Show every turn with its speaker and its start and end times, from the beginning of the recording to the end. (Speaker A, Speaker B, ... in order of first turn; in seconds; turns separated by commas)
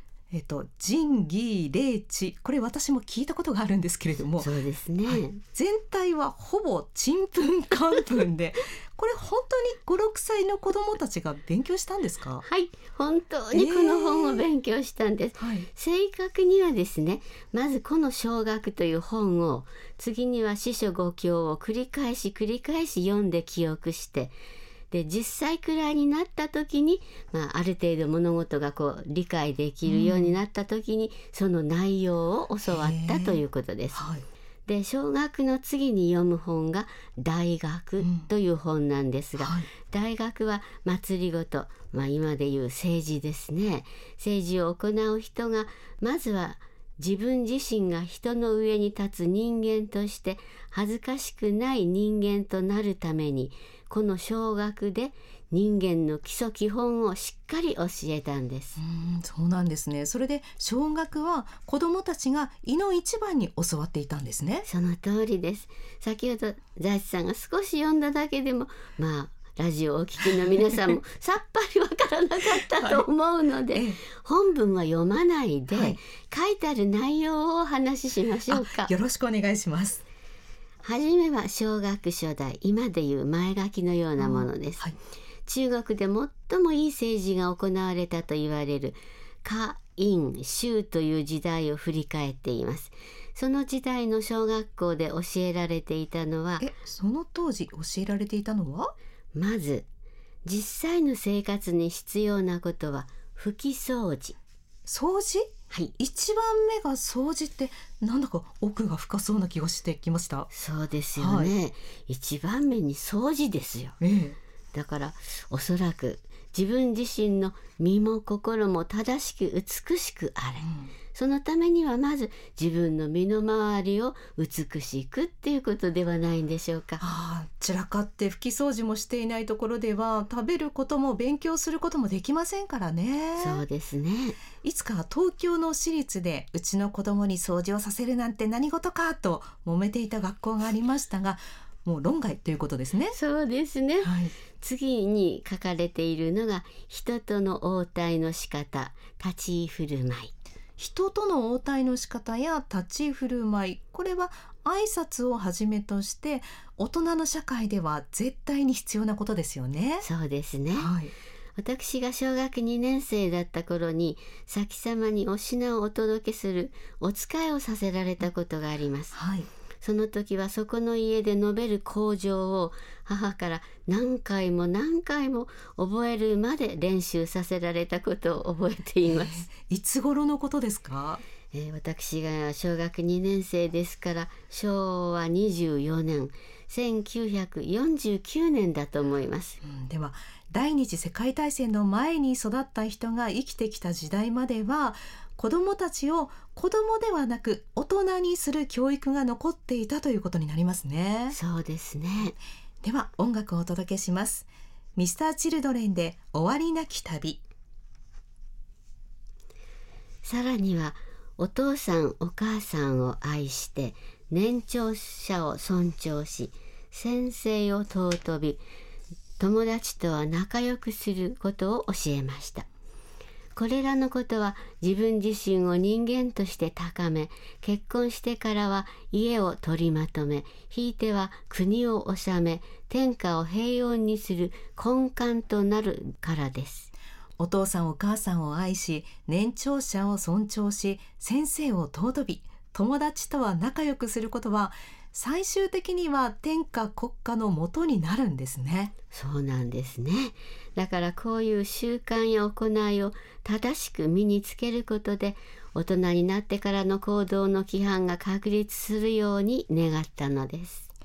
Speaker A: 0.3-4.5, Speaker B: 4.4-5.4, Speaker A: 5.0-12.4, Speaker B: 12.4-24.4, Speaker A: 13.5-14.4, Speaker A: 15.4-15.7, Speaker B: 24.9-34.0, Speaker A: 29.9-30.4, Speaker A: 32.7-33.4, Speaker A: 34.0-34.2, Speaker B: 34.7-58.8, Speaker A: 38.0-38.3, Speaker A: 39.4-39.7, Speaker A: 58.8-64.7, Speaker B: 64.7-78.9, Speaker A: 72.6-73.0, Speaker A: 73.7-74.0, Speaker A: 75.7-76.0, Speaker A: 78.5-80.0, Speaker B: 80.8-84.9, Speaker A: 84.2-85.0, Speaker B: 85.5-96.7, Speaker A: 96.6-98.9, Speaker B: 99.3-99.9, Speaker B: 100.5-104.4, Speaker A: 104.9-110.5, Speaker B: 110.5-114.0, Speaker A: 111.2-111.5, Speaker A: 114.0-114.4, Speaker B: 114.7-127.0, Speaker A: 120.6-120.9, Speaker A: 127.0-133.6, Speaker B: 133.4-134.4, Speaker A: 134.6-143.2, Speaker B: 143.1-150.3, Speaker A: 144.0-144.3, Speaker A: 150.8-160.1, Speaker B: 160.0-160.9, Speaker A: 160.8-161.1, Speaker B: 161.6-169.2, Speaker A: 169.1-169.5, Speaker B: 169.8-179.5, Speaker A: 179.3-181.2, Speaker B: 181.5-189.6, Speaker A: 189.6-201.4, Speaker B: 201.3-202.3, Speaker A: 202.8-207.4, Speaker B: 210.2-218.6, Speaker B: 219.4-222.7, Speaker B: 223.6-236.9, Speaker A: 237.4-248.9, Speaker B: 249.1-260.9